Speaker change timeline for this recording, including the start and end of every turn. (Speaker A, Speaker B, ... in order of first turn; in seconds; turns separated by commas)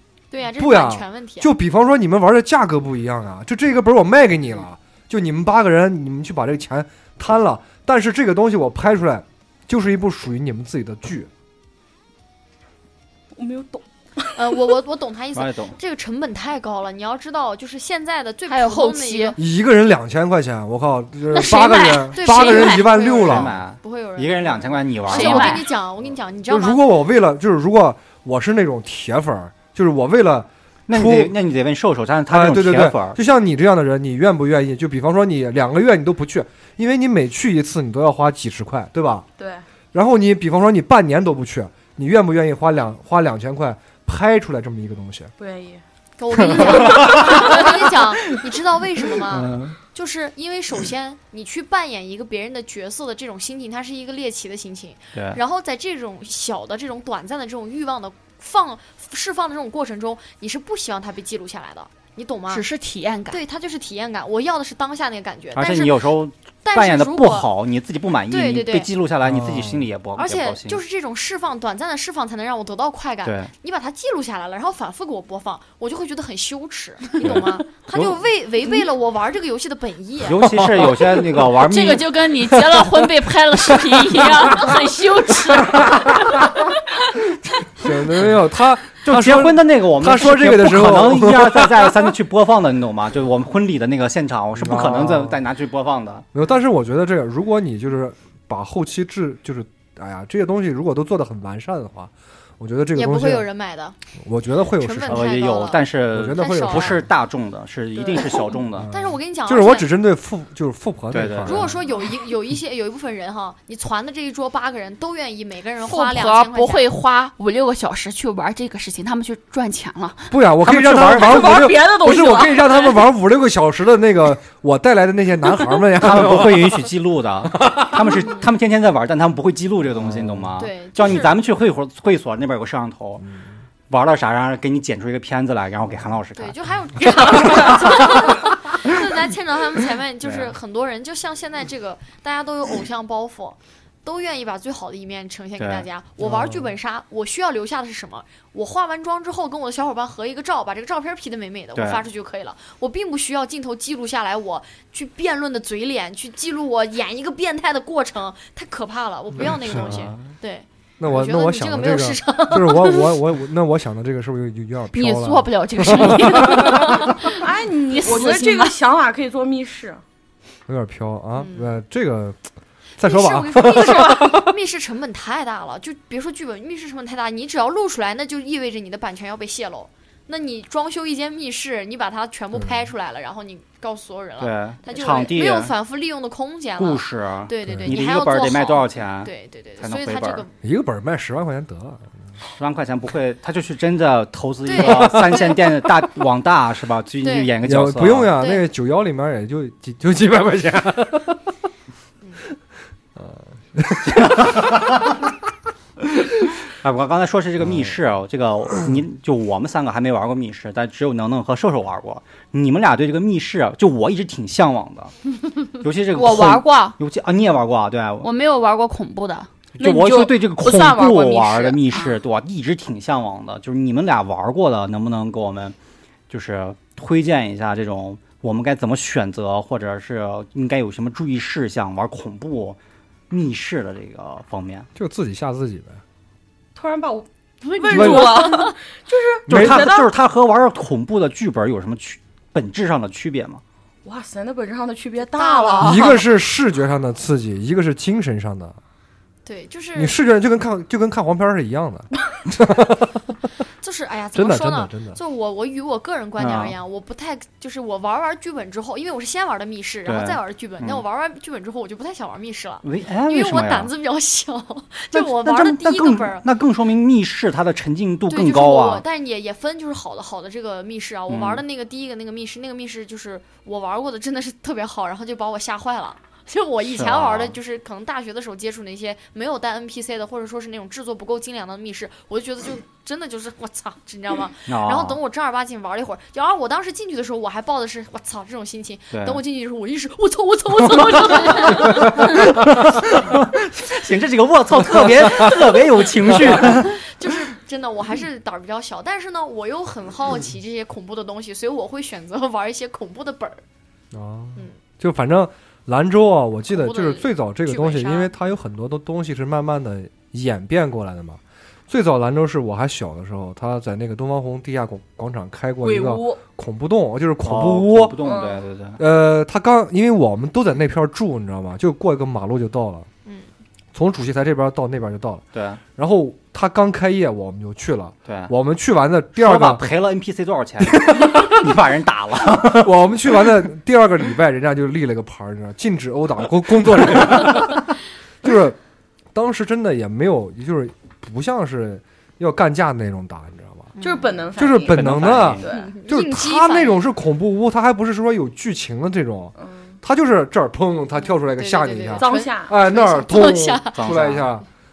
Speaker A: 0.3-1.5, Speaker B: 0.6-11.3, Speaker C: 13.3-14.4, Speaker A: 14.3-19.4, Speaker D: 15.3-15.8, Speaker E: 18.5-19.4, Speaker B: 19.4-23.6, Speaker E: 21.3-23.0, Speaker A: 22.1-26.9, Speaker D: 23.1-25.6, Speaker E: 25.1-25.7, Speaker B: 26.5-31.4, Speaker D: 30.9-33.2, Speaker B: 32.3-39.3, Speaker C: 39.4-39.6, Speaker B: 39.9-45.3, Speaker C: 45.4-45.8, Speaker A: 46.2-62.6, Speaker D: 46.6-47.8, Speaker D: 49.3-49.8, Speaker E: 62.5-63.4, Speaker A: 63.3-66.0, Speaker D: 65.6-70.8, Speaker A: 66.6-67.5, Speaker A: 68.3-68.9, Speaker B: 69.2-69.9, Speaker A: 70.2-80.6, Speaker D: 73.2-73.5, Speaker D: 77.2-78.2, Speaker D: 80.2-82.6, Speaker B: 80.5-80.9, Speaker E: 81.5-87.2, Speaker B: 87.8-92.1, Speaker D: 89.0-96.3, Speaker B: 94.5-95.4, Speaker B: 96.3-103.5, Speaker A: 103.0-104.0, Speaker B: 104.2-105.3, Speaker A: 104.8-107.0, Speaker D: 105.1-108.9, Speaker B: 106.1-107.1, Speaker B: 108.7-111.8, Speaker A: 108.9-109.9, Speaker D: 111.1-111.7, Speaker A: 111.5-116.9, Speaker E: 115.8-120.4, Speaker B: 120.3-126.9, Speaker D: 120.6-121.7, Speaker E: 121.5-122.6, Speaker C: 121.6-122.5, Speaker D: 126.0-133.3, Speaker B: 127.6-128.1, Speaker B: 130.0-130.5, Speaker A: 130.6-131.4, Speaker D: 133.9-136.6, Speaker A: 136.4-163.2, Speaker D: 137.2-138.4, Speaker D: 140.2-140.5, Speaker D: 145.6-145.8, Speaker B: 146.2-146.7, Speaker D: 151.8-152.0, Speaker B: 159.7-160.1, Speaker D: 159.7-160.2, Speaker B: 161.0-166.9, Speaker E: 164.9-168.8, Speaker C: 167.2-170.0, Speaker B: 170.7-172.4, Speaker A: 171.4-171.7, Speaker B: 173.0-174.5, Speaker A: 173.0-190.5, Speaker D: 184.4-185.7, Speaker D: 186.8-190.4, Speaker B: 187.7-188.0, Speaker B: 190.6-192.1, Speaker D: 192.5-198.3, Speaker A: 194.7-195.6, Speaker B: 194.8-195.4, Speaker A: 197.2-197.5, Speaker B: 197.6-201.4, Speaker A: 198.4-198.7, Speaker B: 203.2-204.9, Speaker D: 204.1-205.1, Speaker D: 206.8-215.1, Speaker D: 215.8-218.3, Speaker E: 216.1-217.0, Speaker E: 218.2-219.5, Speaker D: 219.8-225.8, Speaker C: 219.8-222.1, Speaker D: 226.3-232.8, Speaker D: 233.3-234.9, Speaker B: 235.0-236.0, Speaker C: 236.8-240.1, Speaker B: 237.9-238.4, Speaker A: 237.9-238.7, Speaker B: 239.5-239.9, Speaker D: 239.5-243.6, Speaker C: 244.1-246.2, Speaker A: 245.2-246.2, Speaker B: 245.8-248.8, Speaker A: 249.4-250.2, Speaker B: 250.0-253.3, Speaker A: 253.8-266.5, Speaker B: 254.3-255.2, Speaker D: 256.4-256.7, Speaker D: 260.1-261.0, Speaker D: 262.8-263.9, Speaker D: 265.1-269.0, Speaker A: 268.3-292.4, Speaker D: 271.3-271.6, Speaker D: 276.8-277.6, Speaker D: 284.7-285.2, Speaker D: 289.1-289.4, Speaker D: 291.5-297.0, Speaker B: 295.2-295.6, Speaker A: 296.6-303.6, Speaker B: 304.1-318.2, Speaker A: 306.7-308.3, Speaker C: 315.8-316.4, Speaker D: 317.4-319.0, Speaker C: 318.2-318.6, Speaker B: 319.0-323.1, Speaker B: 323.9-325.4, Speaker D: 325.5-325.8, Speaker B: 326.0-329.9, Speaker D: 328.3-328.5, Speaker D: 329.4-333.0, Speaker B: 330.8-331.6, Speaker B: 332.7-338.8, Speaker B: 339.3-343.9, Speaker A: 344.0-344.4, Speaker C: 344.0-345.9, Speaker B: 344.6-354.6, Speaker D: 344.8-345.7, Speaker A: 345.7-347.0, Speaker C: 349.6-349.9, Speaker A: 351.2-354.0, Speaker C: 352.2-352.8, Speaker D: 354.0-354.5